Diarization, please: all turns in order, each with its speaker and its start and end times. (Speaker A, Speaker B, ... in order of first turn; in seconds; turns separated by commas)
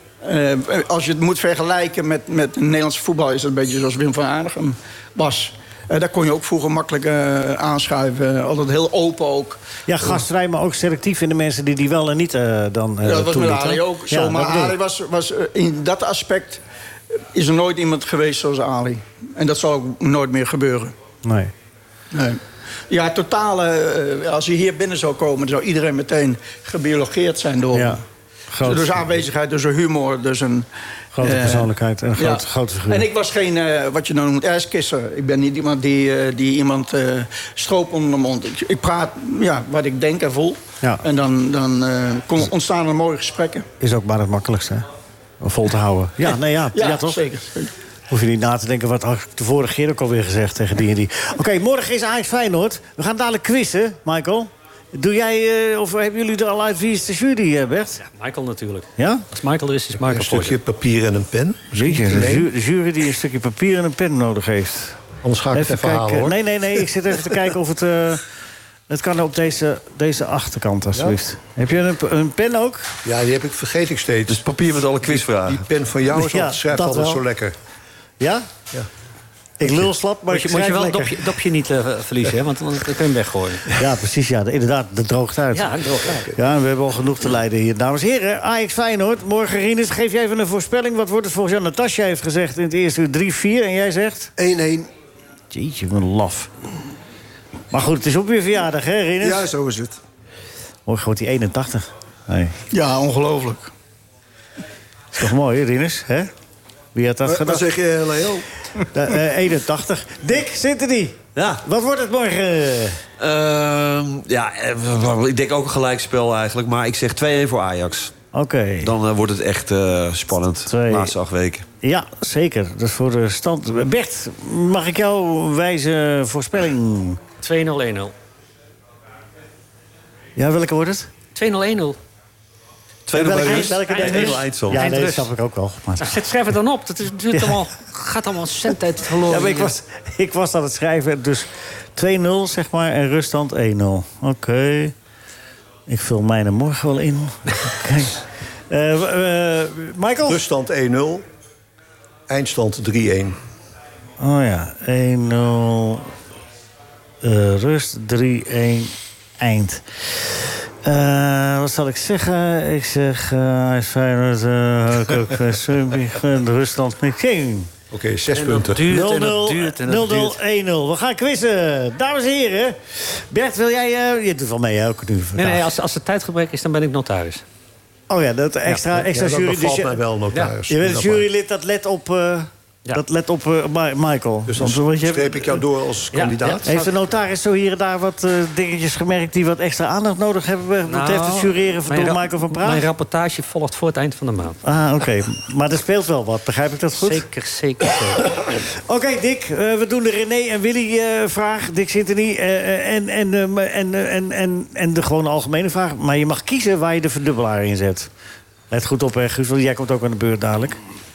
Speaker A: 0.2-10.2, Speaker B: 9.9-14.7, Speaker A: 13.0-16.6, Speaker A: 17.3-20.9, Speaker B: 21.2-21.5, Speaker A: 22.1-28.0, Speaker B: 27.7-29.0, Speaker A: 28.6-30.7, Speaker B: 31.1-33.0, Speaker A: 31.2-43.6, Speaker B: 43.8-44.9, Speaker B: 45.4-47.2, Speaker A: 46.7-47.7, Speaker B: 48.1-58.0, Speaker C: 58.1-60.6, Speaker B: 59.0-59.2, Speaker D: 60.0-62.5, Speaker B: 61.7-68.2, Speaker D: 65.2-66.4, Speaker B: 68.9-72.9, Speaker D: 73.0-74.5, Speaker E: 74.3-75.6, Speaker D: 75.0-77.5, Speaker B: 76.1-77.2, Speaker B: 78.2-78.5, Speaker B: 79.6-81.2, Speaker C: 80.3-83.8, Speaker B: 83.7-94.3, Speaker C: 85.5-86.3, Speaker F: 94.4-94.9, Speaker B: 95.5-96.5, Speaker B: 97.7-99.5, Speaker F: 99.2-100.0, Speaker B: 100.8-102.5, Speaker A: 102.7-103.7, Speaker B: 105.1-106.3, Speaker B: 106.9-107.7, Speaker F: 107.2-108.5, Speaker B: 108.9-113.0, Speaker E: 111.3-111.6, Speaker E: 113.2-118.1, Speaker B: 118.3-118.9, Speaker E: 118.8-121.6, Speaker B: 120.7-121.1, Speaker B: 121.8-127.2, Speaker C: 127.4-128.1, Speaker B: 130.3-131.1, Speaker C: 131.3-132.0, Speaker E: 133.1-134.9, Speaker B: 133.1-136.2, Speaker C: 133.5-135.3, Speaker C: 136.0-139.7, Speaker B: 137.3-137.7, Speaker B: 139.2-144.9, Speaker B: 145.9-150.4, Speaker D: 150.3-151.2, Speaker D: 152.3-153.4, Speaker B: 154.2-156.1, Speaker B: 157.2-167.7, Speaker D: 167.9-168.8, Speaker C: 168.3-170.4, Speaker B: 168.8-175.7, Speaker C: 175.3-177.4, Speaker B: 178.1-180.0, Speaker D: 178.9-181.2, Speaker B: 180.7-184.8, Speaker D: 184.5-186.7, Speaker C: 184.6-185.6, Speaker C: 186.1-186.9, Speaker B: 186.7-192.8, Speaker C: 190.9-194.6, Speaker B: 194.6-197.2, Speaker C: 197.0-198.4, Speaker B: 198.8-208.1, Speaker B: 208.7-210.8